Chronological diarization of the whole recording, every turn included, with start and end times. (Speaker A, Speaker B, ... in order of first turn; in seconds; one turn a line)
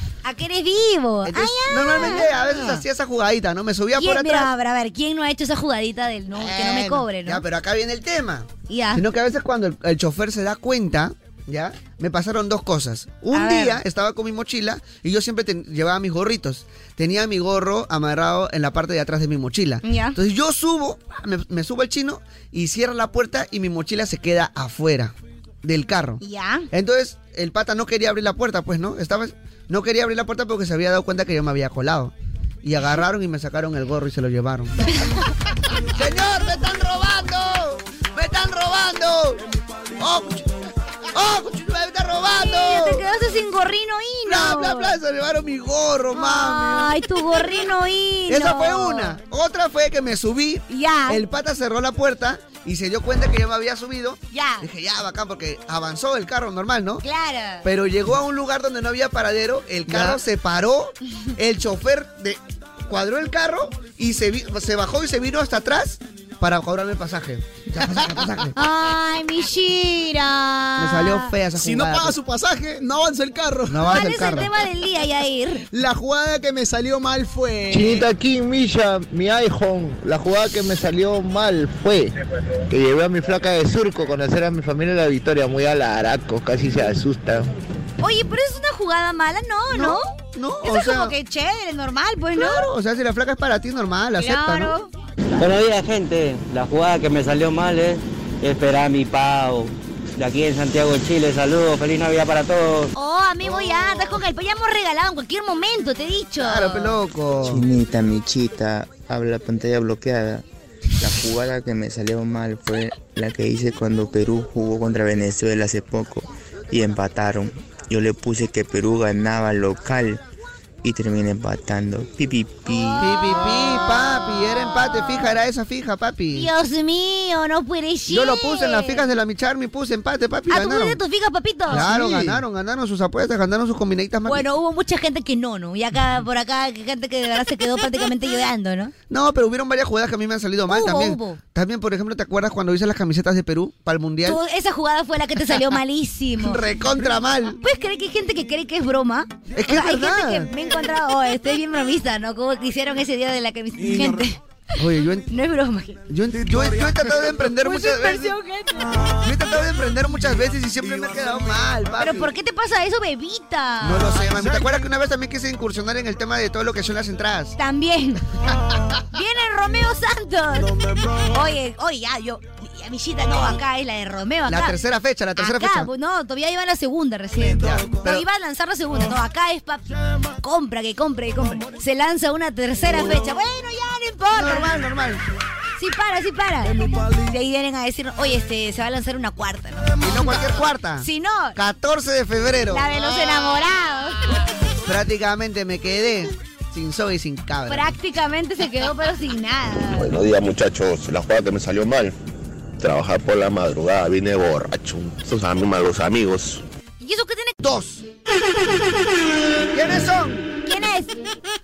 Speaker A: 0.2-2.3
Speaker B: 1.2-4.5
Speaker C: 2.2-2.8
Speaker A: 4.0-7.4
Speaker B: 6.4-32.1
Speaker A: 8.7-9.0
Speaker A: 13.3-13.8
Speaker A: 19.8-20.2
Speaker A: 26.2-26.7
Speaker B: 32.6-34.9
Speaker B: 35.9-39.4
Speaker B: 40.0-40.5
Speaker B: 41.1-43.0
Speaker A: 42.4-45.0
Speaker B: 44.2-46.9
Speaker A: 46.1-49.2
Speaker B: 48.3-57.0
Speaker A: 50.7-51.2
Speaker A: 54.3-54.7
Speaker A: 57.0-57.7
Speaker B: 57.6-68.6
Speaker C: 59.9-60.2
Speaker A: 68.6-71.3
Speaker B: 70.8-72.2
Speaker C: 71.5-73.9
Speaker B: 73.7-74.5
Speaker A: 73.8-75.7
Speaker C: 75.7-78.1
Speaker D: 77.7-82.1
Speaker D: 82.7-87.5
Speaker A: 88.0-90.0
Speaker B: 89.7-91.2
Speaker A: 90.6-92.7
Speaker B: 92.3-94.8
Speaker A: 94.2-94.9
Speaker E: 95.4-102.9
Speaker A: 103.0-107.0
Speaker B: 106.4-107.7
Speaker F: 107.4-110.4
Speaker F: 111.0-120.2
Speaker F: 120.8-123.1
Speaker A: 122.7-125.3
Speaker B: 123.0-126.5
Speaker A: 126.3-129.1
Speaker B: 128.1-131.0
Speaker A: 130.5-131.9
Speaker B: 131.7-134.4
Speaker C: 131.7-132.4
Speaker A: 134.3-138.9
Speaker B: 139.1-144.4
Speaker A: 140.7-141.4
Speaker A: 144.2-146.6
Speaker B: 146.4-147.6
Speaker A: 147.6-154.4
Speaker B: 149.5-150.5
Speaker B: 154.8-155.3
Speaker A: 155.3-156.0
Speaker B: 156.1-158.4
Speaker A: 157.5-159.0
Speaker B: 159.2-162.3
Speaker C: 160.9-161.3
Speaker A: 162.0-164.2
Speaker B: 163.8-167.6
Speaker C: 164.2-164.7
Speaker A: 167.6-168.2
Speaker A: 169.1-170.7
Speaker A: 171.3-174.8
Speaker B: 174.5-175.9
Speaker A: 175.4-184.7
Speaker B: 177.4-178.3
Speaker B: 184.3-185.2
Speaker A: 185.8-190.4
Speaker B: 190.0-192.9
Speaker A: 191.0-191.6
Speaker A: 192.7-194.4
Speaker B: 194.8-197.9
Speaker A: 197.7-200.2
Speaker G: 199.9-202.2
Speaker G: 202.8-206.6
Speaker A: 207.0-207.6
Speaker B: 207.6-208.1
Speaker B: 209.7-210.5
Speaker A: 210.6-211.2